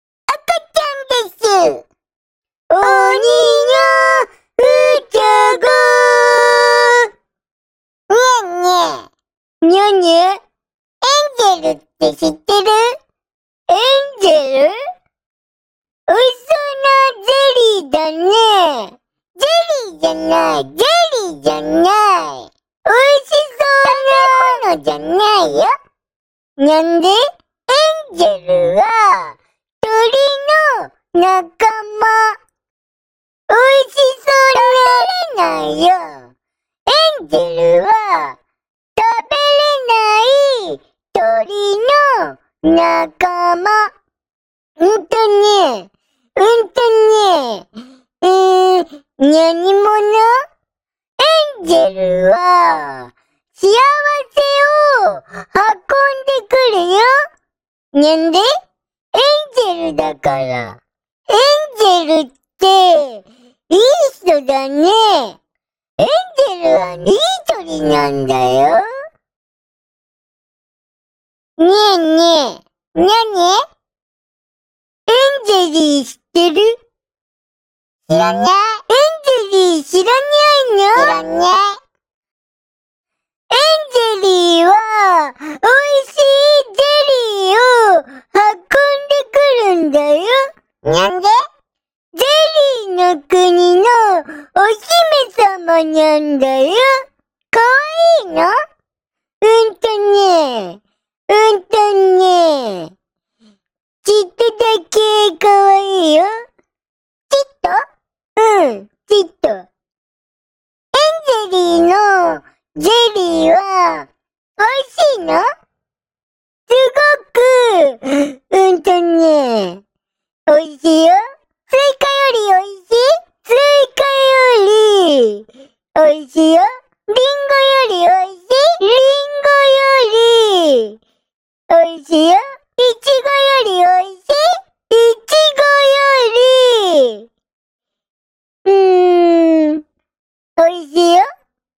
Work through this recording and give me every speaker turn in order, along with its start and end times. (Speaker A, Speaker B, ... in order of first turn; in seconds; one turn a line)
Speaker A: 0.3-1.8
Speaker A: 2.7-7.1
Speaker A: 8.1-9.0
Speaker A: 9.6-10.4
Speaker A: 11.0-13.0
Speaker A: 13.7-14.8
Speaker A: 16.1-25.7
Speaker A: 26.6-32.3
Speaker A: 33.5-36.3
Speaker A: 36.9-38.4
Speaker A: 38.9-43.9
Speaker A: 44.8-47.7
Speaker A: 48.2-50.4
Speaker A: 51.2-57.2
Speaker A: 57.9-58.5
Speaker A: 59.1-65.4
Speaker A: 66.0-68.9
Speaker A: 71.6-73.6
Speaker A: 75.1-76.8
Speaker A: 78.1-81.8
Speaker A: 83.5-91.4
Speaker A: 92.1-97.0
Speaker A: 97.5-98.6
Speaker A: 99.4-102.9
Speaker A: 104.0-106.3
Speaker A: 107.3-107.8
Speaker A: 108.4-109.7
Speaker A: 110.9-115.5
Speaker A: 116.7-119.8
Speaker A: 120.5-131.0
Speaker A: 131.7-137.3
Speaker A: 138.6-139.8
Speaker A: 140.6-141.3